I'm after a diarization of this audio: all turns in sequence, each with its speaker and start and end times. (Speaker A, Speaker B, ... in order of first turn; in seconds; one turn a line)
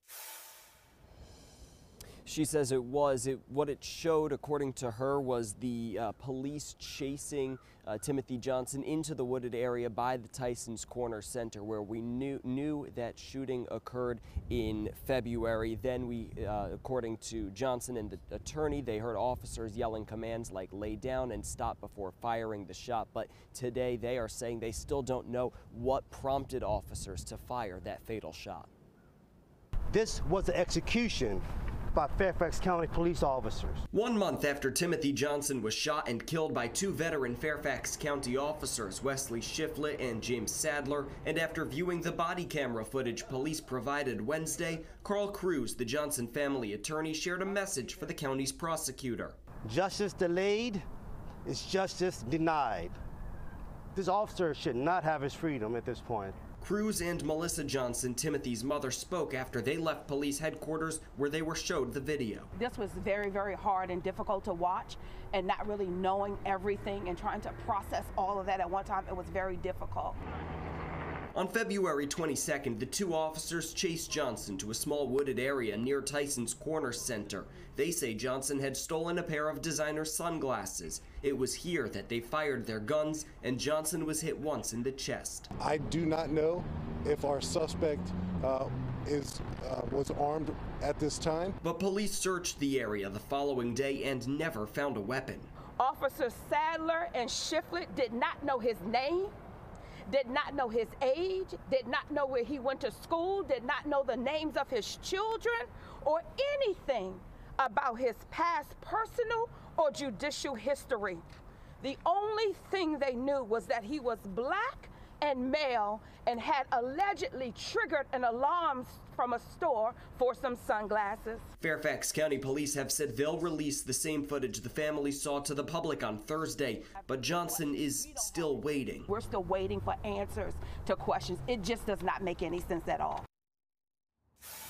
Speaker A: 2.2-28.7
Speaker B: 29.9-33.9
Speaker A: 33.9-49.4
Speaker B: 49.6-50.8
Speaker B: 51.4-53.0
Speaker B: 53.9-56.4
Speaker A: 56.6-62.5
Speaker C: 62.5-70.2
Speaker A: 71.3-85.5
Speaker D: 85.6-91.6
Speaker A: 91.6-95.5
Speaker C: 95.8-99.3
Speaker C: 100.1-111.2
Speaker C: 111.8-121.5
Speaker A: 121.6-129.1
Speaker C: 127.1-128.5
Speaker C: 129.1-133.2